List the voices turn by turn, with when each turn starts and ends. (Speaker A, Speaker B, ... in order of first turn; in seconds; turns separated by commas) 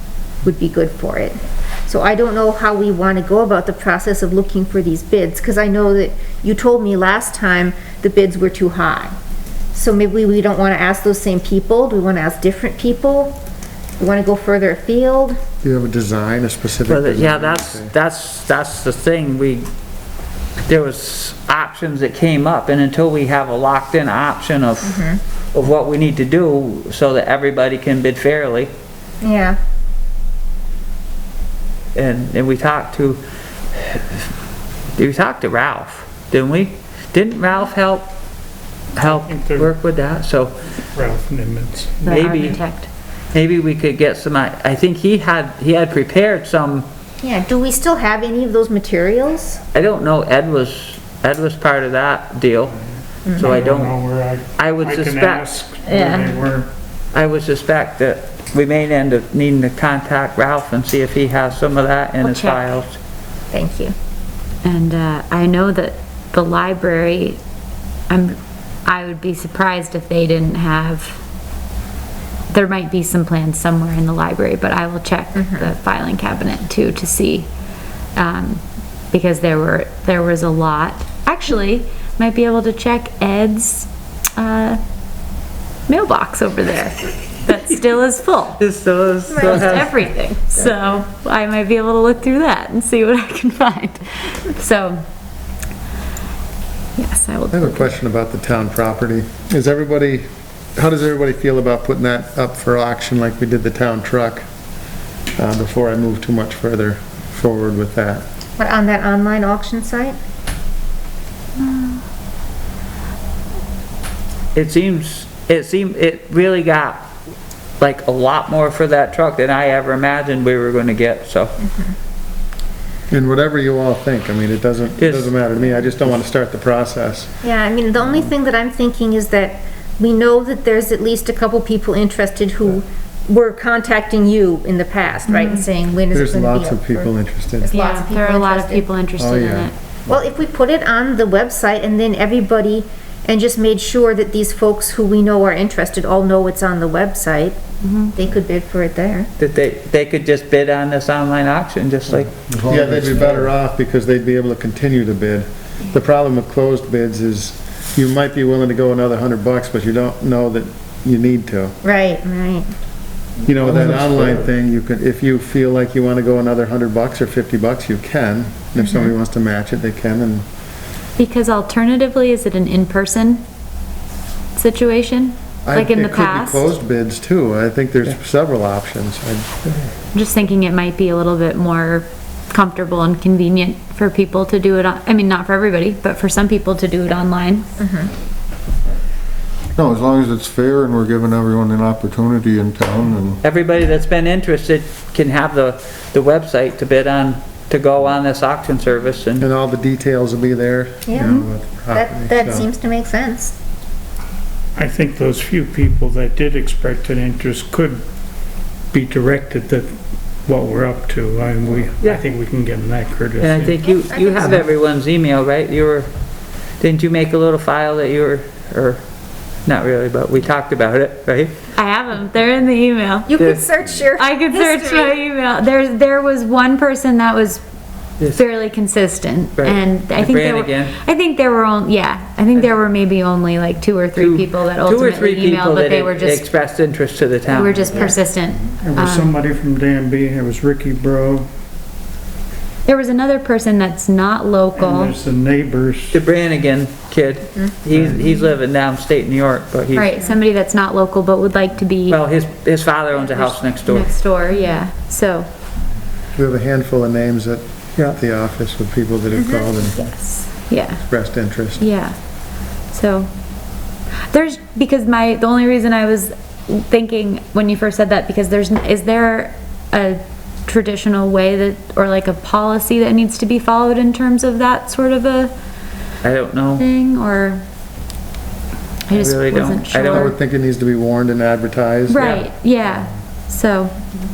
Speaker A: 0.4-9.2, Speaker A: 9.7-13.4, Speaker A: 14.0-15.4, Speaker B: 15.6-17.9, Speaker C: 16.9-19.7, Speaker C: 20.7-28.7, Speaker A: 24.8-25.2, Speaker A: 29.2-29.6, Speaker C: 31.9-33.2, Speaker C: 33.7-34.3, Speaker C: 35.0-38.1, Speaker C: 39.0-40.5, Speaker D: 39.2-39.7, Speaker D: 40.9-42.0, Speaker E: 42.0-42.9, Speaker C: 42.1-42.6, Speaker C: 43.3-46.9, Speaker A: 47.2-49.6, Speaker C: 49.7-52.7, Speaker C: 53.3-54.0, Speaker D: 53.4-56.7, Speaker C: 54.6-55.5, Speaker E: 55.9-56.3, Speaker C: 57.1-63.0, Speaker E: 62.2-62.7, Speaker A: 63.5-63.9, Speaker E: 64.6-67.4, Speaker E: 68.1-71.2, Speaker E: 72.5-77.5, Speaker A: 75.4-75.7, Speaker E: 78.2-84.8, Speaker E: 85.9-88.6, Speaker C: 88.6-90.0, Speaker A: 89.3-89.9, Speaker E: 89.4-95.0, Speaker E: 97.0-98.0, Speaker B: 97.5-104.5, Speaker B: 105.4-108.2, Speaker A: 108.6-110.2, Speaker E: 111.6-112.0, Speaker C: 114.5-117.1, Speaker C: 117.8-121.5, Speaker A: 121.6-121.9, Speaker B: 123.1-127.3, Speaker C: 125.0-125.3, Speaker A: 127.4-137.1, Speaker B: 136.1-137.7, Speaker A: 137.6-138.8, Speaker E: 137.7-139.7, Speaker B: 139.2-139.7, Speaker A: 140.1-147.6, Speaker E: 147.8-148.1, Speaker A: 148.1-149.3, Speaker C: 149.4-152.3, Speaker F: 152.5-153.5, Speaker B: 152.7-161.7, Speaker A: 161.8-162.7, Speaker B: 163.4-170.4, Speaker F: 163.6-164.4, Speaker E: 171.2-173.4, Speaker E: 174.5-176.7, Speaker B: 175.7-179.7, Speaker E: 180.1-187.7, Speaker A: 187.8-188.1, Speaker F: 189.7-193.4, Speaker C: 193.4-199.4, Speaker B: 199.4-202.7, Speaker A: 201.1-203.6, Speaker D: 204.8-208.0, Speaker D: 208.9-213.7, Speaker C: 213.4-216.1, Speaker A: 214.1-214.4, Speaker C: 216.8-219.0, Speaker C: 219.6-221.5, Speaker E: 221.7-223.3, Speaker A: 223.3-225.2, Speaker C: 223.3-223.6, Speaker E: 224.2-227.6, Speaker E: 228.3-236.5, Speaker C: 229.6-230.9, Speaker C: 234.2-238.2, Speaker E: 237.5-239.2, Speaker D: 238.8-241.5, Speaker E: 242.8-245.1, Speaker D: 244.7-246.2, Speaker C: 246.1-250.1, Speaker E: 249.9-252.2, Speaker C: 252.1-254.1, Speaker E: 253.3-255.5, Speaker B: 256.4-260.1, Speaker A: 259.3-259.7, Speaker E: 260.0-261.0, Speaker B: 261.1-261.8, Speaker E: 261.8-262.1, Speaker E: 262.9-263.3, Speaker E: 264.3-275.5, Speaker C: 276.2-276.9, Speaker E: 276.8-277.6, Speaker E: 279.1-280.4, Speaker C: 279.1-280.3, Speaker B: 280.1-282.4, Speaker E: 282.1-284.0, Speaker C: 282.2-282.4